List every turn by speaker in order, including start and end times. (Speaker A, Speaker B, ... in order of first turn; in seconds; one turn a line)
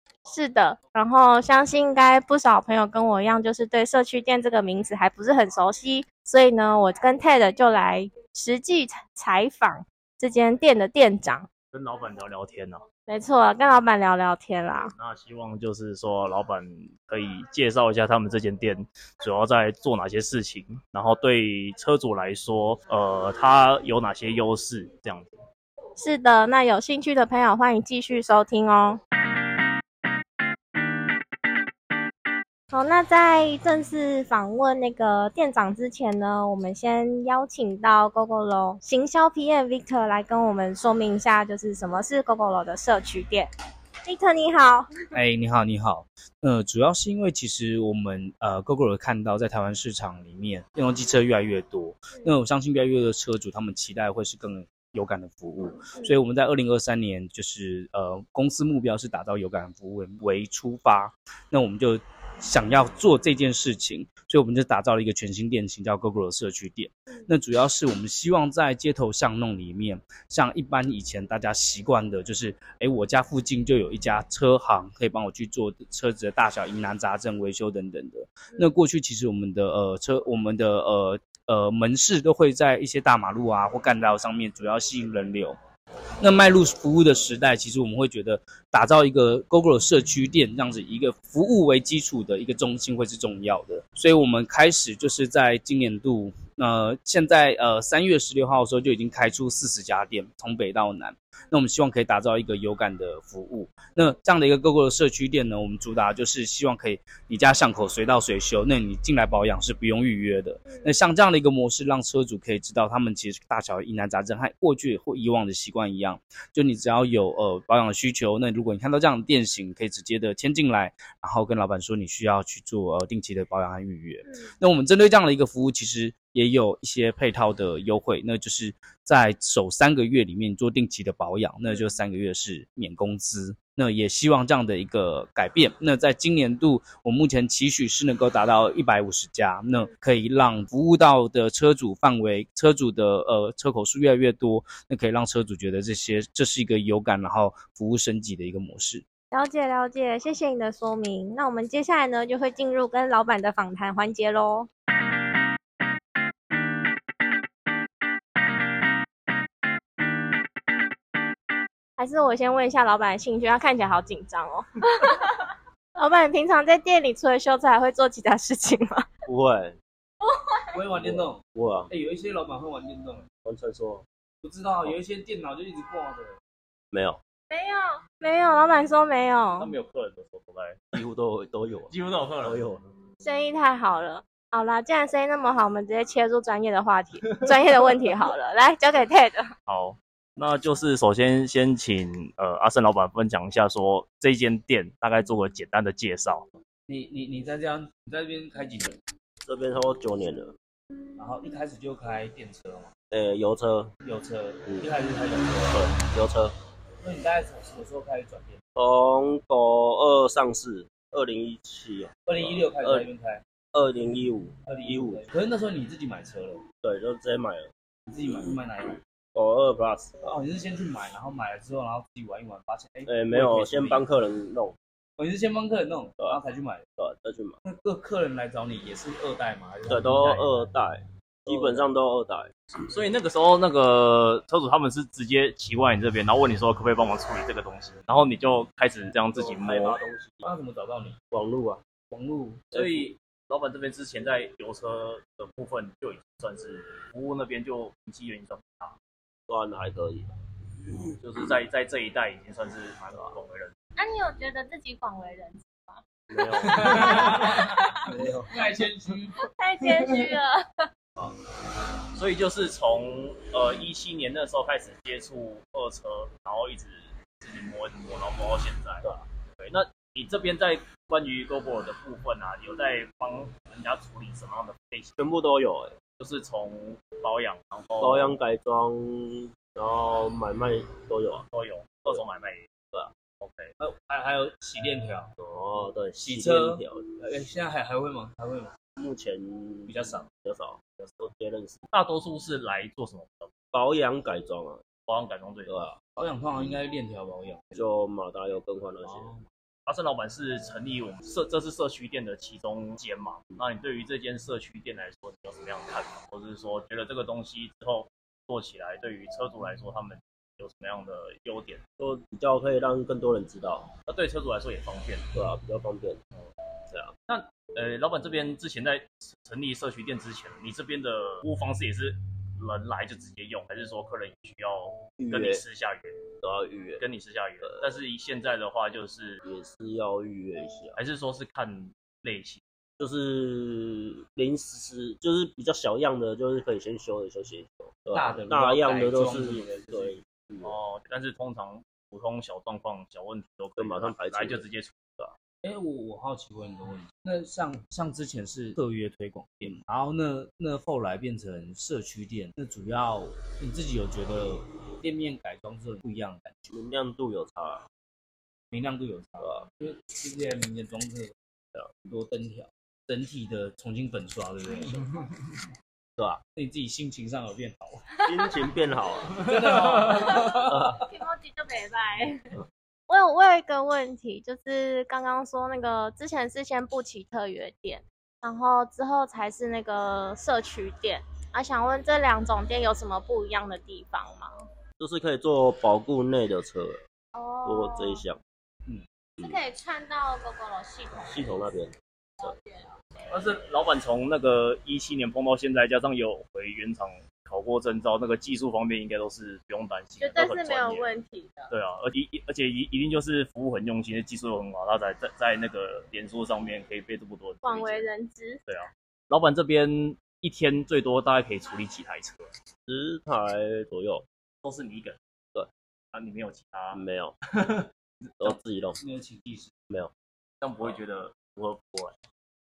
Speaker A: 0.3-11.5
Speaker B: 11.7-12.8
Speaker A: 13.1-14.9
Speaker B: 14.9-25.3
Speaker A: 26.0-29.0
Speaker A: 32.7-43.5
Speaker A: 44.0-44.9
Speaker C: 45.1-85.5
Speaker A: 52.1-52.4
Speaker A: 78.5-78.8
Speaker C: 86.2-149.0
Speaker A: 110.7-111.1
Speaker A: 124.2-124.5
Speaker A: 131.7-132.0
Speaker A: 139.7-139.9
Speaker A: 149.3-154.7
Speaker A: 162.0-169.1
Speaker D: 169.3-169.8
Speaker A: 170.2-170.6
Speaker C: 170.7-173.2
Speaker D: 170.9-171.9
Speaker D: 173.4-174.0
Speaker C: 174.4-176.3
Speaker D: 176.9-177.2
Speaker A: 177.5-179.7
Speaker B: 179.6-180.8
Speaker D: 180.9-182.8
Speaker B: 181.9-182.6
Speaker A: 183.2-189.4
Speaker B: 189.7-196.4
Speaker C: 196.9-199.0
Speaker D: 199.4-200.5
Speaker C: 201.2-202.9
Speaker D: 203.1-203.9
Speaker C: 204.0-205.9
Speaker D: 205.6-206.5
Speaker C: 207.0-208.6
Speaker D: 208.8-213.1
Speaker C: 212.2-213.4
Speaker D: 213.7-215.2
Speaker C: 214.7-216.6
Speaker D: 216.8-217.7
Speaker C: 218.1-219.0
Speaker D: 218.3-218.6
Speaker D: 219.3-220.1
Speaker C: 220.2-224.0
Speaker D: 223.1-224.8
Speaker C: 225.2-226.8
Speaker D: 227.0-227.6
Speaker C: 227.6-230.7
Speaker D: 229.9-232.5
Speaker C: 231.5-231.9
Speaker B: 232.8-240.0
Speaker D: 239.3-240.6
Speaker C: 240.4-241.2
Speaker D: 241.3-241.8
Speaker C: 242.1-242.7
Speaker D: 242.7-243.1
Speaker B: 242.7-248.9
Speaker D: 249.5-250.3
Speaker B: 251.2-253.7
Speaker A: 254.0-256.0
Speaker D: 256.3-257.5
Speaker A: 256.6-257.9
Speaker C: 256.7-257.7
Speaker D: 258.1-258.5
Speaker C: 258.2-259.4
Speaker A: 259.4-260.6
Speaker B: 262.1-269.1
Speaker B: 269.6-275.1
Speaker D: 275.2-275.9
Speaker B: 276.2-278.4
Speaker D: 278.0-281.4
Speaker B: 281.5-282.7
Speaker B: 283.4-283.7
Speaker C: 283.8-285.3
Speaker D: 285.4-287.0
Speaker C: 286.2-288.7
Speaker D: 288.9-291.8
Speaker C: 289.9-290.3
Speaker B: 291.9-293.5
Speaker D: 293.7-294.8
Speaker B: 295.1-295.9
Speaker D: 295.7-296.0
Speaker C: 296.1-297.9
Speaker D: 297.7-299.3
Speaker C: 299.0-299.4
Speaker B: 299.9-311.8
Speaker D: 312.0-313.9
Speaker B: 314.1-315.3
Speaker D: 315.3-316.2
Speaker B: 317.3-326.1
Speaker D: 325.2-325.6
Speaker D: 326.4-327.0
Speaker B: 327.0-329.4
Speaker D: 329.4-331.0
Speaker B: 330.9-332.6
Speaker D: 333.0-340.8
Speaker C: 338.1-340.2
Speaker B: 340.6-345.3
Speaker D: 343.8-344.6
Speaker C: 345.6-356.7
Speaker D: 356.7-357.8
Speaker C: 358.7-361.3
Speaker D: 359.4-359.7
Speaker C: 362.0-365.0
Speaker C: 366.6-368.0
Speaker D: 368.3-369.3
Speaker C: 369.4-370.8
Speaker A: 369.8-372.4
Speaker A: 373.1-384.5
Speaker D: 385.0-387.0
Speaker A: 387.3-388.2
Speaker D: 387.6-388.4
Speaker A: 389.4-391.7
Speaker D: 391.3-392.5
Speaker A: 392.4-393.0
Speaker B: 393.3-401.1
Speaker A: 400.2-401.7
Speaker B: 401.7-408.1
Speaker A: 407.6-408.6
Speaker B: 408.7-412.5
Speaker D: 412.9-414.2
Speaker B: 414.6-415.2
Speaker B: 416.1-417.0
Speaker D: 416.9-417.3
Speaker B: 417.6-417.9
Speaker D: 418.4-419.0
Speaker C: 419.0-419.7
Speaker B: 420.6-422.2